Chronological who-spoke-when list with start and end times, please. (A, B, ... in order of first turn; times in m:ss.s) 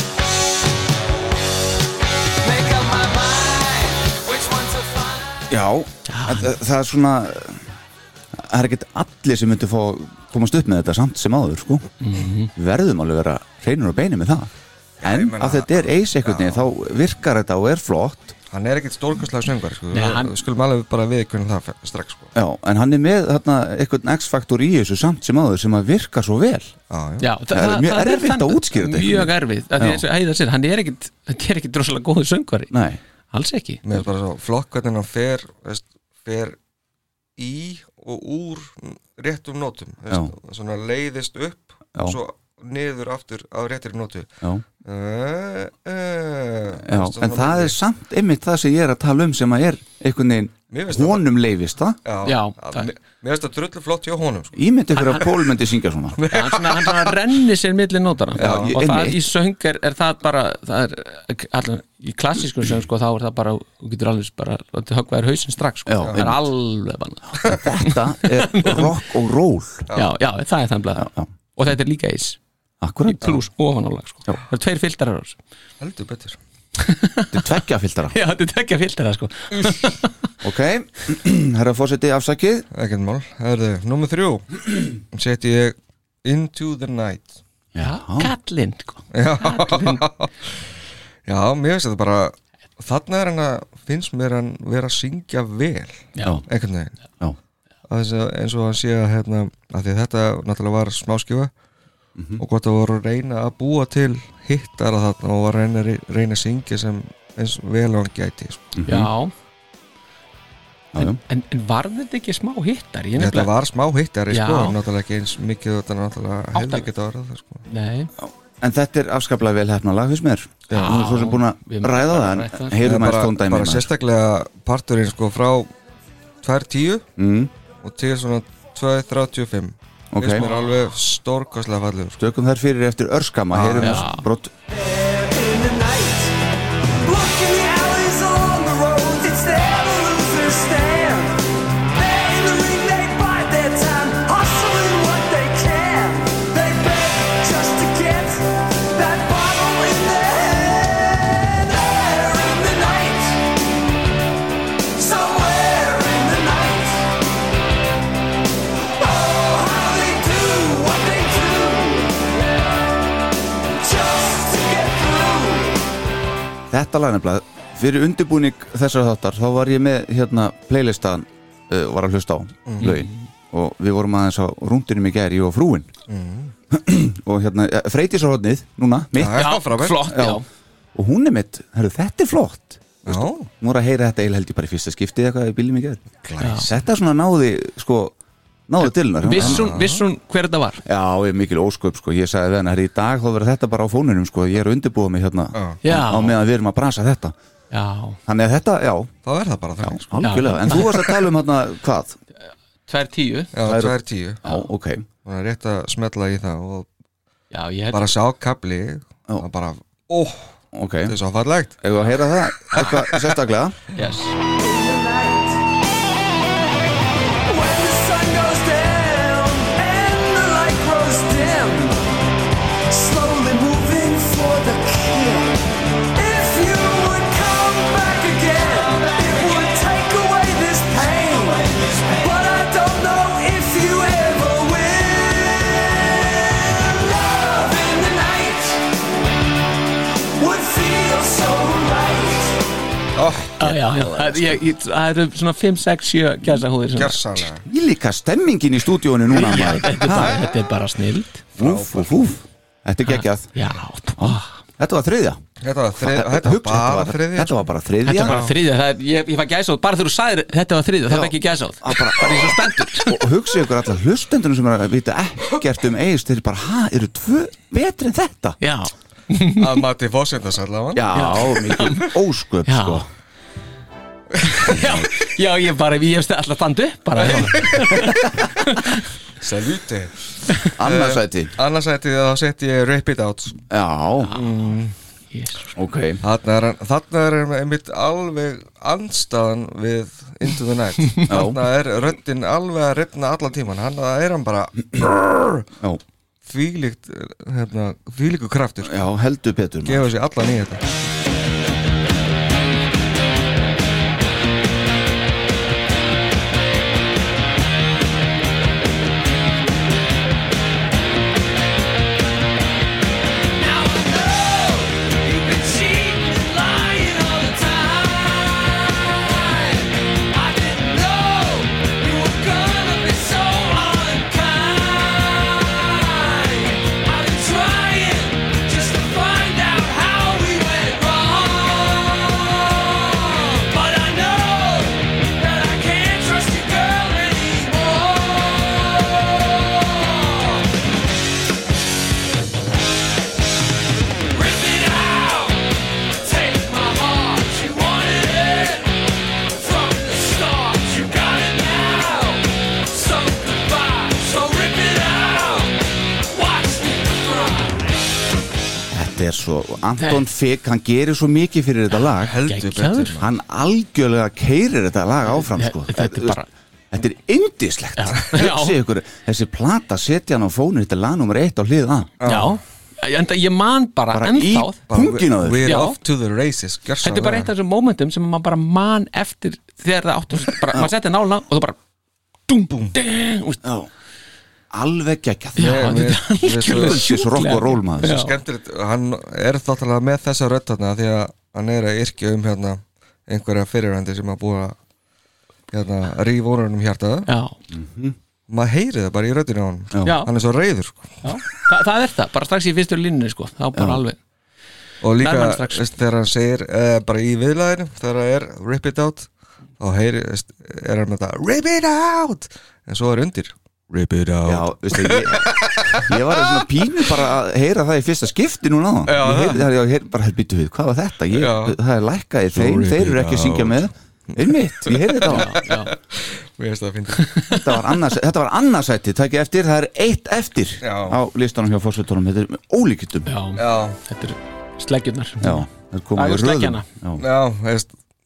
0:02.4-0:05.4 A
0:05.5-0:07.7 B
0:06.0-0:06.5 C
0:08.3-0:11.9 B
0:12.0-0:12.5 C
0:12.5-0:14.5 B
0:15.0-0:16.6 D
0:15.0-0:18.3 B
0:18.5-0:22.3 D
0:19.9-0:20.3 C
0:22.3-0:26.7 B
0:26.9-0:27.3 D
0:27.2-0:32.7 C
0:27.5-0:30.0 B
0:32.7-0:33.0 B
0:33.3-0:33.8 C
0:33.8-0:36.6 D
0:37.4-0:44.3 D
0:44.8-0:47.8 D
0:46.8-0:52.0 B
0:50.7-0:51.3 D
0:52.0-0:54.6 D
0:52.2-0:52.9 C
0:54.5-0:56.2 B
0:54.9-0:55.2 C
0:56.2-0:57.1 D
0:56.3-1:08.9 C
0:58.4-0:58.8 D
0:58.4-0:59.2 B
1:05.9-1:06.4 B
1:07.3-1:09.9 B
1:09.9-1:12.4 C
1:11.0-1:11.3 B
1:12.8-1:13.4 B
1:13.0-1:15.4 C
1:15.8-1:16.4 D
1:16.8-1:17.3 C
1:17.3-1:18.1 B
1:18.1-1:20.1 C
1:20.4-1:22.7 B
1:22.7-1:27.4 D
1:27.7-1:28.3 B
1:27.8-1:30.0 C
1:29.1-1:30.5 D
1:31.3-1:36.9 D
1:36.2-1:36.4 C
1:37.9-1:41.5 D
1:42.2-1:42.4 B
1:42.4-1:48.8 D
1:48.8-1:49.1 B
1:48.9-1:49.3 C
1:50.9-1:51.2 B
1:51.0-1:53.5 C
1:53.2-1:57.6 D
1:54.3-1:54.8 C
1:56.5-1:56.9 C
1:57.7-1:58.1 C
1:58.2-2:03.9 B
2:00.7-2:01.0 D
2:00.7-2:02.8 C
2:02.8-2:05.7 D
2:06.4-2:07.1 D
2:07.2-2:07.5 B
2:07.8-2:12.2 D
2:10.1-2:10.4 B
2:10.4-2:10.7 C
2:12.2-2:14.5 B
2:13.5-2:14.0 D
2:13.8-2:14.2 C
2:14.7-2:16.4 A
2:17.0-2:33.5 A
2:34.9-2:37.1 A
2:39.0-2:43.0 A
2:43.8-2:45.8 A
2:46.7-2:55.9 B
2:52.7-2:52.9 D
2:52.8-2:53.2 C
2:56.1-2:56.5 D
2:56.7-2:59.5 B
2:59.2-3:00.0 D
2:59.4-3:00.4 C
3:00.0-3:00.4 B
3:00.9-3:08.1 B
3:03.0-3:03.5 D
3:06.2-3:06.7 D
3:06.4-3:06.7 C
3:08.7-3:09.7 B
3:08.8-3:10.8 C
3:09.4-3:10.0 D
3:10.8-3:17.3 B
3:15.5-3:15.8 D
3:15.8-3:16.4 C
3:17.7-3:18.2 C
3:18.3-3:19.1 B
3:19.2-3:20.3 D
3:19.8-3:22.2 B
3:20.2-3:21.2 C
3:22.9-3:23.5 C
3:23.5-3:24.4 D
3:23.6-3:25.0 B
3:25.2-3:26.9 D
3:27.5-3:28.1 C
3:27.9-3:31.8 D
3:30.7-3:31.2 B
3:31.8-3:33.8 B
3:32.7-3:33.3 D
3:33.9-3:34.3 C
3:34.5-3:35.6 A
3:37.4-3:42.3 A
3:42.9-3:58.9 A
4:00.3-4:02.6 A
4:03.2-4:04.4 D
4:03.6-4:07.2 C
4:06.9-4:07.6 D
4:07.6-4:10.4 B
4:09.3-4:11.4 C
4:09.5-4:10.2 D
4:11.6-4:12.1 D
4:11.6-4:13.5 B
4:13.0-4:14.6 C
4:14.2-4:15.4 B
4:15.6-4:17.6 D
4:16.0-4:18.4 B
4:18.0-4:23.2 C
4:18.2-4:18.5 D
4:21.1-4:28.6 B
4:28.6-4:29.7 C
4:29.6-4:31.1 D
4:30.9-4:33.1 B
4:31.1-4:32.1 C
4:32.7-4:33.0 C
4:34.4-4:39.0 C
4:34.7-4:35.0 B
4:37.2-4:37.8 D
4:39.4-4:43.6 D
4:40.8-4:41.5 B
4:43.7-4:44.3 B
4:44.3-4:44.8 C
4:44.4-4:44.9 D
4:45.3-4:45.7 C
4:45.7-4:46.2 B
4:46.2-4:55.6 D
4:51.3-4:51.6 B
4:56.4-4:59.1 D
4:58.8-5:00.1 B
4:59.8-5:00.8 D
5:13.6-5:40.7 A
5:44.3-5:48.9 A
5:49.5-5:57.9 A
5:58.9-6:02.4 B
6:02.2-6:03.3 D
6:02.5-6:03.1 C
6:03.2-6:06.4 B
6:05.3-6:06.5 C
6:06.9-6:12.1 B
6:08.0-6:08.8 C
6:12.2-6:12.6 D
6:12.2-6:14.8 C
6:14.1-6:15.7 B
6:14.9-6:17.5 D
6:15.6-6:16.0 C
6:17.0-6:21.8 C
6:22.5-6:23.6 C
6:23.6-6:23.9 B
6:24.7-6:26.0 B
6:25.6-6:28.3 C
6:25.6-6:27.0 D
6:26.6-6:28.2 B
6:28.0-6:34.8 D
6:35.7-6:37.3 D
6:37.3-6:37.5 C
6:37.7-6:38.2 B
6:38.5-6:41.2 D
6:40.0-6:40.3 C
6:41.2-6:44.2 C
6:43.7-6:44.0 B
6:45.0-6:49.3 D
6:45.2-6:45.8 C
6:49.8-6:57.1 D
6:54.4-7:05.6 B
6:59.0-6:59.7 D
7:01.3-7:01.8 D
7:02.5-7:07.5 D
7:05.3-7:05.9 C
7:07.2-7:07.6 C
7:07.5-7:13.3 B
7:10.8-7:11.2 D
7:13.2-7:16.8 C
7:13.6-7:14.0 D
7:15.4-7:17.2 B
7:17.2-7:17.9 D